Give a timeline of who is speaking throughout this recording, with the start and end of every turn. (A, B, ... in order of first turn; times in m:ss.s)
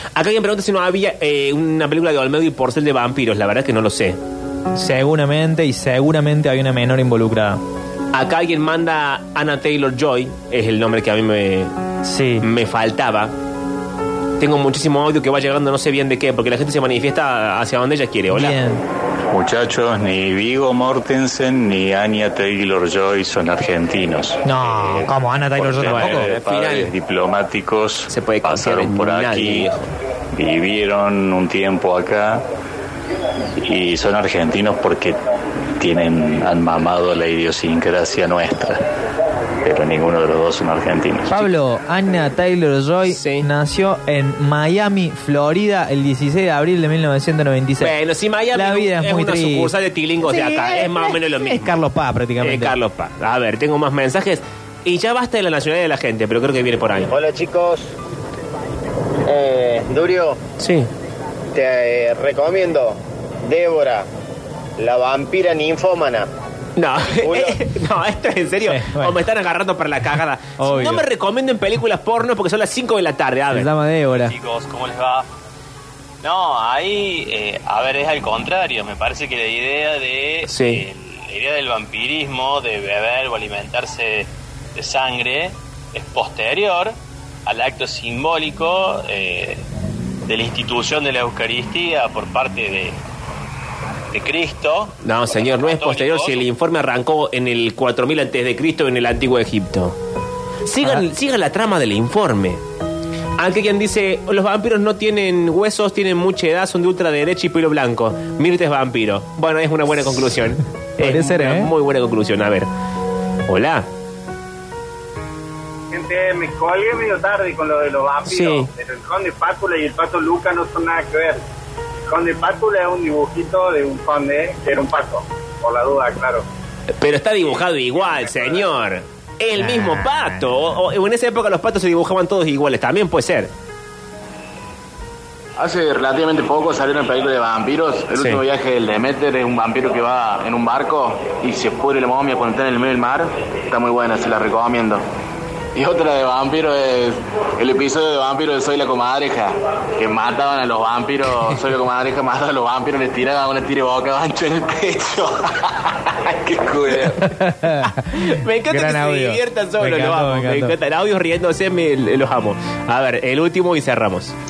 0:00.1-0:04.2 A
0:04.7-0:07.6 B
0:08.1-0:11.7 A
0:12.0-0:12.5 B
0:12.4-0:13.3 A
0:14.4-0:18.6 A
0:18.3-0:18.8 B
0:19.3-0:24.9 C
0:24.4-0:26.3 B
0:25.6-0:29.7 C
0:25.8-0:26.9 A
0:28.1-0:29.9 A
0:30.3-0:32.4 C
0:33.6-0:35.2 C
0:35.8-0:38.8 C
0:39.6-0:41.4 C
0:41.3-0:47.9 B
0:43.0-0:43.5 A
0:47.8-0:51.7 A
0:48.5-0:52.8 B
0:52.4-0:57.1 A
0:57.1-0:57.9 D
0:59.2-1:00.4 D
1:00.6-1:00.9 A
1:01.5-1:04.0 D
1:04.8-1:06.3 D
1:06.8-1:13.7 A
1:07.2-1:07.6 D
1:08.6-1:09.2 B
1:10.6-1:11.0 B
1:13.5-1:14.3 B
1:14.1-1:15.3 E
1:16.2-1:26.9 E
1:20.4-1:20.8 A
1:27.4-1:29.6 E
1:30.3-1:33.0 E
1:34.1-1:36.5 E
1:35.0-1:40.0 A
1:40.6-1:42.6 A
1:43.4-1:52.7 A
1:51.0-1:51.7 B
1:53.5-1:53.9 A
1:55.9-2:01.4 F
1:58.2-1:58.7 A
2:02.1-2:06.4 F
2:06.9-2:13.5 A
2:09.5-2:10.8 B
2:15.6-2:25.0 G
2:18.2-2:18.4 A
2:25.7-2:37.2 G
2:37.2-2:40.8 B
2:37.3-2:44.3 A